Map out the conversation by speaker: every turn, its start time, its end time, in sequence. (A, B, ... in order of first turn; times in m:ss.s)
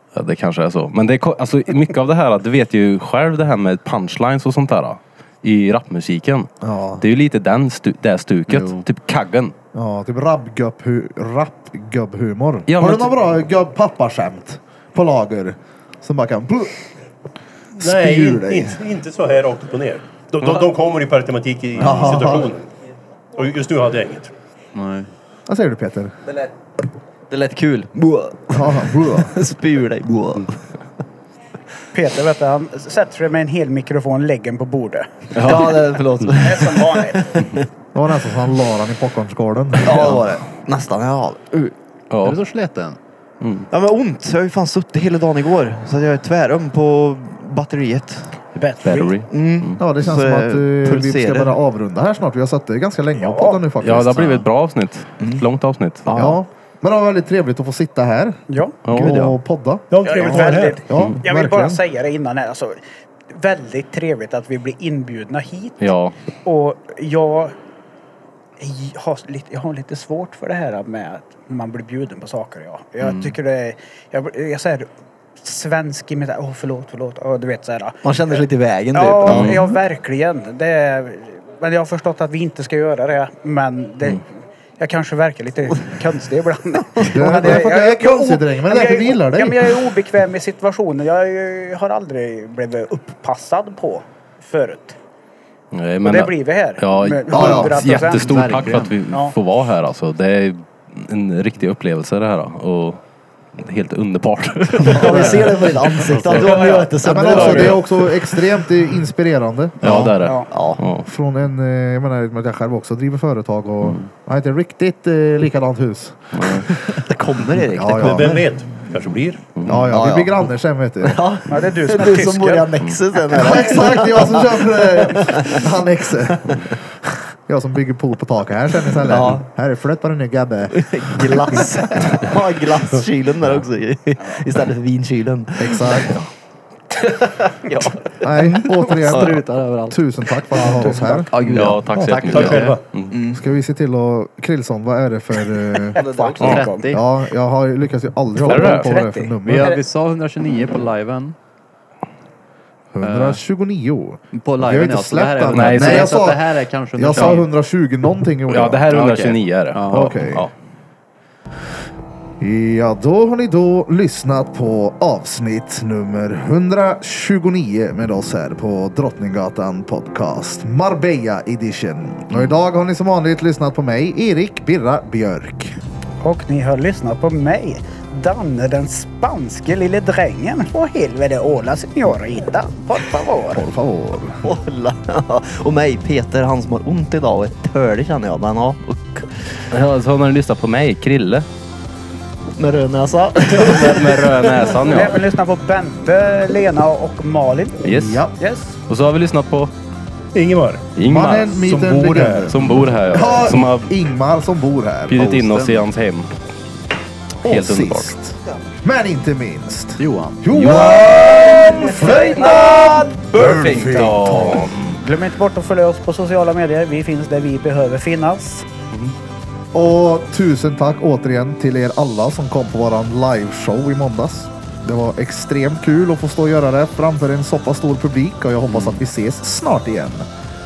0:00.1-0:06.5 A
0:06.6-0:07.0 B
0:07.0-0:09.5 A
0:08.5-0:08.8 C
0:09.7-0:16.8 B
0:12.7-0:13.2 A
0:17.8-0:22.7 D
0:17.8-0:18.8 B
0:21.8-0:22.5 B
0:21.9-0:22.1 C
0:23.4-0:24.3 D
0:24.7-0:25.1 C
0:25.5-0:26.1 B
0:27.3-0:30.6 E
0:28.5-0:29.3 B
0:31.9-0:35.3 F
0:35.4-0:35.7 A
0:35.4-0:37.6 E
0:36.4-0:37.4 F
0:38.0-0:40.2 B
0:39.8-0:41.7 E
0:42.1-0:42.4 A
0:42.2-0:43.0 C
0:43.4-0:43.7 A
0:43.7-0:48.4 E
0:48.6-0:49.2 F
0:48.8-0:49.8 A
0:49.3-0:51.6 E
0:49.8-0:54.5 B
0:53.2-0:53.7 F
0:53.8-0:56.3 A
0:55.2-0:55.4 E
0:56.1-0:56.4 E
0:56.1-1:01.8 B
0:58.5-0:59.1 F
0:58.9-0:59.2 A
0:59.9-1:00.9 D
1:00.0-1:05.9 F
1:05.8-1:06.2 A
1:06.4-1:07.6 F
1:08.6-1:24.2 F
1:13.0-1:13.4 C
1:18.0-1:19.6 E
1:19.3-1:19.7 A
1:24.8-1:35.0 F
1:27.1-1:29.8 B
1:35.7-1:43.0 A
1:36.0-1:38.4 F
1:37.4-1:37.7 B
1:38.0-1:39.0 C
1:39.1-1:39.4 F
1:43.6-1:45.5 A
1:44.9-1:48.3 E
1:45.0-1:45.4 F
1:46.2-1:47.8 A
1:46.3-1:47.4 F
1:47.0-1:49.9 B
1:49.8-1:51.1 A
1:49.8-1:50.1 C
1:50.2-1:50.5 F
1:50.5-1:50.9 E
1:51.0-1:56.5 B
1:56.3-1:56.7 A
1:57.0-1:58.5 E
1:57.8-1:58.4 B
1:58.0-1:59.4 D
1:59.7-2:01.2 B
1:59.7-2:00.4 E
2:01.0-2:05.7 E
2:01.5-2:02.8 F
2:03.4-2:11.4 B
2:03.5-2:04.0 F
2:06.3-2:06.7 E
2:09.0-2:09.5 E
2:10.7-2:16.3 E
2:15.6-2:16.2 B
2:16.9-2:19.4 E
2:18.2-2:22.7 B
2:18.8-2:20.0 C
2:20.6-2:21.3 F
2:21.3-2:21.8 E
2:21.4-2:23.1 A
2:22.3-2:22.8 D
2:22.4-2:22.8 C
2:23.1-2:23.4 E
2:23.3-2:26.0 B
2:25.8-2:26.9 F
2:26.0-2:26.6 E
2:26.4-2:27.0 C
2:26.9-2:29.8 B
2:28.4-2:29.8 F
2:28.5-2:28.9 A
2:29.4-2:31.4 C
2:32.9-2:38.9 B
2:33.0-2:33.4 C
2:34.3-2:37.5 C
2:35.4-2:36.3 A
2:38.5-2:40.5 A
2:38.9-2:40.3 C
2:39.9-2:40.5 B
2:42.4-2:55.8 B
2:56.2-3:03.7 F
3:03.5-3:04.4 B
3:04.4-3:09.6 E
3:09.7-3:11.5 A
3:12.5-3:14.6 E
3:13.5-3:15.2 A
3:14.8-3:18.8 F
3:17.8-3:18.2 A
3:17.9-3:18.3 B
3:18.9-3:19.7 A
3:20.3-3:20.9 D
3:21.0-3:21.7 A
3:21.0-3:25.3 B
3:21.6-3:22.5 D
3:22.5-3:23.9 A
3:25.1-3:26.3 A
3:25.2-3:25.9 C
3:27.4-3:34.8 B
3:27.4-3:28.1 A
3:30.0-3:30.5 C
3:30.5-3:31.2 A
3:31.5-3:32.6 F
3:33.4-3:35.0 A
3:33.5-3:33.8 E
3:33.6-3:33.9 F
3:35.0-3:38.7 F
3:39.7-3:50.3 B
3:48.7-3:49.0 A